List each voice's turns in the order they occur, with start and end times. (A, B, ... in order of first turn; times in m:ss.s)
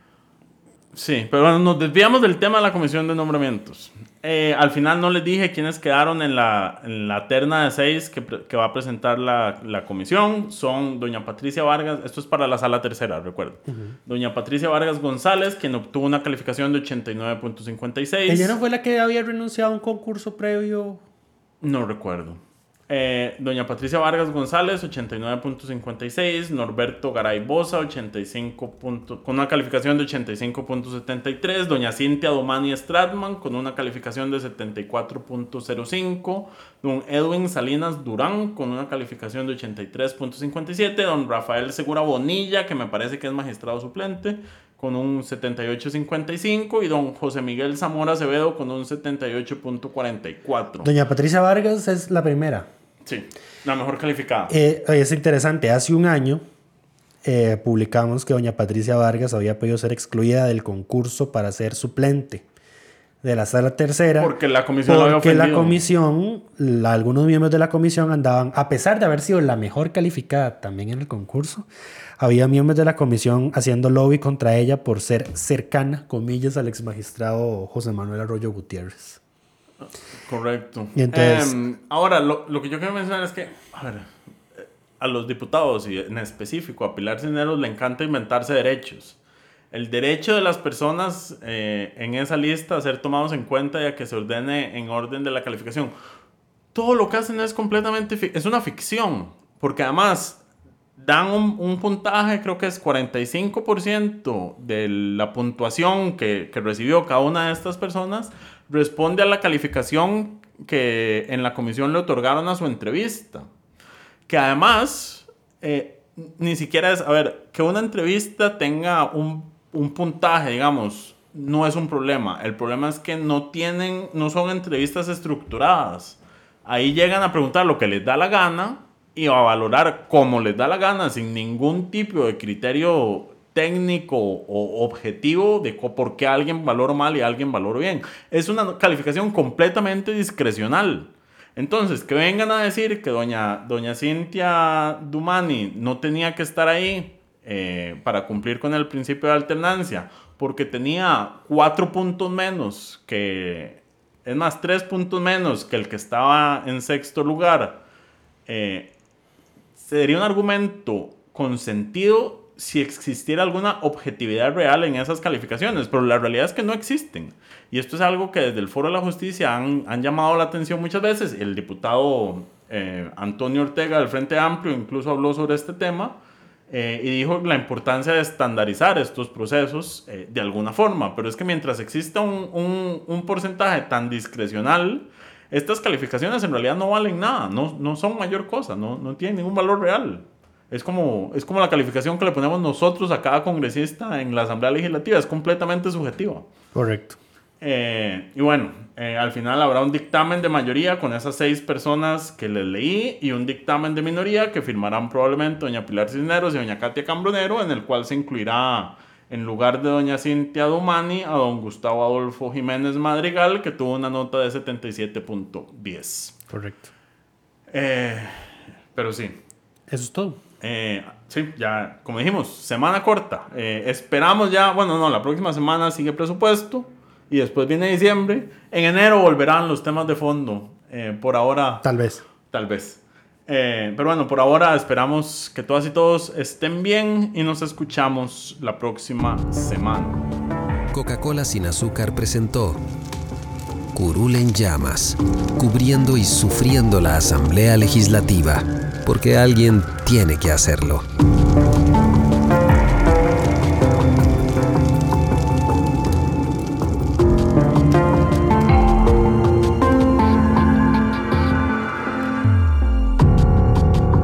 0:00.9-0:18.6 A
0:13.7-0:14.0 B
0:18.3-0:21.0 B
0:21.6-0:50.9 A
0:50.8-0:52.7 B
0:53.0-0:54.5 A
0:54.5-0:56.4 B
0:57.2-1:02.4 B
1:03.2-1:04.3 B
1:04.2-1:05.8 A
1:04.8-1:11.7 B
1:12.2-1:19.2 B
1:19.8-1:29.2 A
1:21.0-1:21.6 B
1:29.7-1:35.9 A
1:36.7-1:40.4 A
1:41.0-1:53.5 A
1:54.3-2:37.8 A
2:38.5-2:38.9 A
2:39.8-3:16.5 A
3:16.7-3:17.2 B
3:17.6-3:36.4 A
3:36.5-3:36.9 B
3:37.7-3:39.4 A
3:39.9-3:40.4 B
3:40.6-3:51.8 A
3:51.8-3:52.2 B
3:52.5-4:00.2 A
4:00.9-4:02.8 C
4:03.9-4:11.0 C